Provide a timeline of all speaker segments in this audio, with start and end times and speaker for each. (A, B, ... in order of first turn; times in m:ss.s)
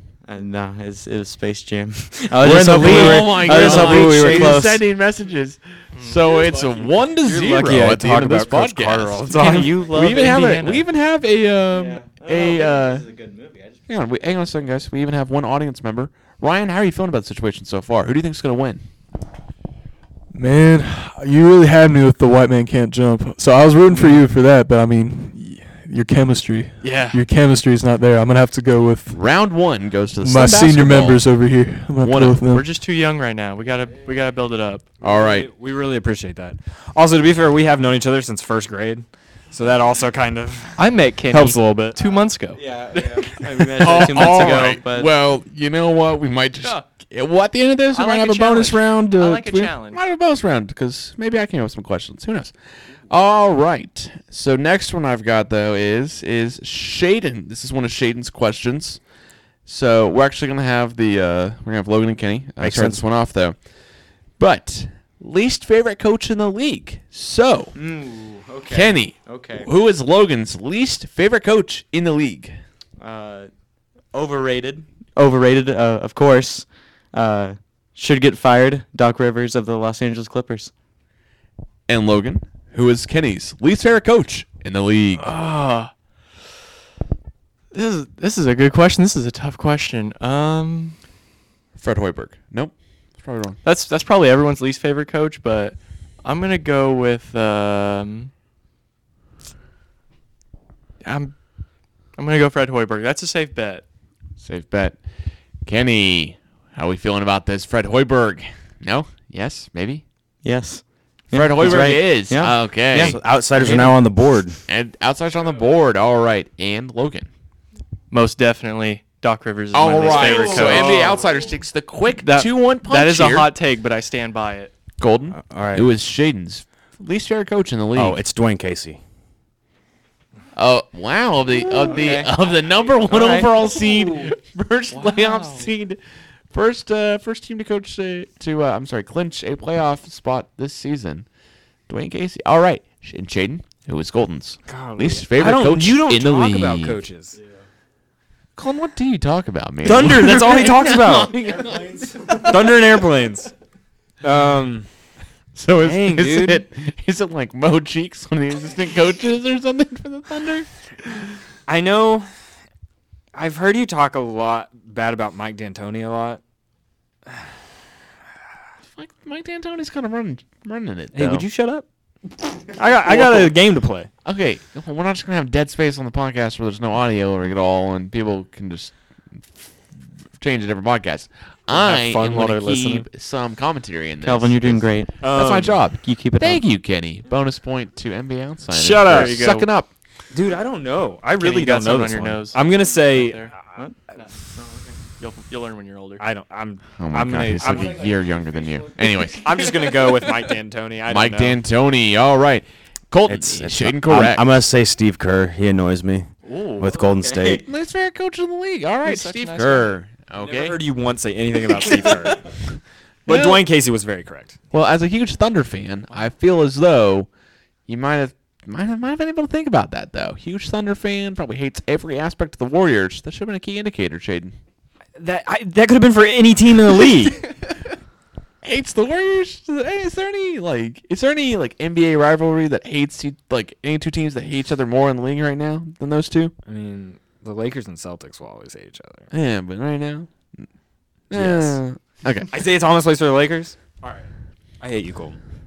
0:00.2-0:04.8 A
0:02.4-0:13.1 B
0:02.4-0:04.5 C
0:03.0-0:04.5 D
0:03.5-0:04.0 E
0:05.9-0:06.6 E
0:07.2-0:09.9 D
0:09.4-0:10.4 A
0:09.9-0:10.8 E
0:12.2-0:12.5 A
0:13.9-0:18.8 B
0:20.3-0:29.2 F
0:26.8-0:27.2 E
0:29.1-0:31.2 B
0:30.2-0:32.6 F
0:32.0-0:32.4 B
0:32.4-0:34.8 E
0:35.0-0:35.5 B
0:35.0-0:42.0 D
0:40.8-0:44.4 E
0:42.7-0:45.1 A
0:43.8-0:52.5 B
0:47.9-0:50.0 E
0:53.1-0:59.0 B
0:59.6-1:03.6 B
1:02.6-1:03.0 C
1:04.4-1:07.7 B
1:07.7-1:09.7 A
1:08.7-1:12.6 B
1:13.0-1:13.5 A
1:14.1-1:20.7 A
1:21.9-1:25.3 B
1:25.2-1:25.9 E
1:27.7-1:31.0 E
1:31.8-1:33.6 B
1:33.6-1:38.3 E
1:41.0-1:41.4 E
1:42.1-1:43.8 E
1:44.4-1:45.0 B
1:45.6-1:50.0 B
1:50.4-1:53.1 A
1:51.3-1:54.0 B
1:52.9-1:54.6 C
1:54.7-1:57.3 B
1:58.1-2:01.4 E
1:59.7-2:03.5 B
2:02.1-2:04.7 E
2:05.0-2:08.2 B
2:05.3-2:05.9 C
2:07.9-2:09.0 C
2:10.5-2:16.0 B
2:11.9-2:12.3 A
2:13.1-2:13.4 A
2:16.5-2:21.3 B
2:21.9-2:27.0 B
2:24.6-2:27.4 D
2:28.6-2:32.9 B
2:29.8-2:31.4 D
2:32.2-2:33.5 D
2:34.2-2:34.9 D
2:35.5-2:41.2 B
2:35.8-2:36.6 D
2:41.7-2:42.3 D
2:43.3-2:46.4 D
2:49.0-2:51.5 B
2:51.1-2:51.8 D
2:52.7-2:54.1 D
2:53.0-2:53.5 B
2:54.2-2:59.6 B
3:00.4-3:09.9 B
3:01.7-3:03.1 D
3:04.2-3:06.6 A
3:05.2-3:05.8 D
3:08.7-3:09.4 D
3:09.1-3:09.7 E
3:10.3-3:13.8 D
3:11.4-3:13.5 E
3:15.2-3:16.2 E
3:16.2-3:18.1 D
3:17.0-3:20.0 B
3:19.4-3:21.6 D
3:21.0-3:24.4 B
3:23.2-3:27.6 C
3:27.4-3:30.8 B
3:29.0-3:29.9 E
3:30.4-3:32.5 D
3:33.2-3:34.6 D
3:33.3-3:33.6 B
3:34.7-3:37.3 B
3:37.9-3:44.6 B
3:45.2-3:47.4 D
3:48.6-3:56.5 B
3:56.6-3:59.3 D
3:59.3-4:00.6 B
4:01.3-4:02.6 B
4:01.3-4:01.8 D
4:02.5-4:04.3 D
4:04.8-4:05.4 D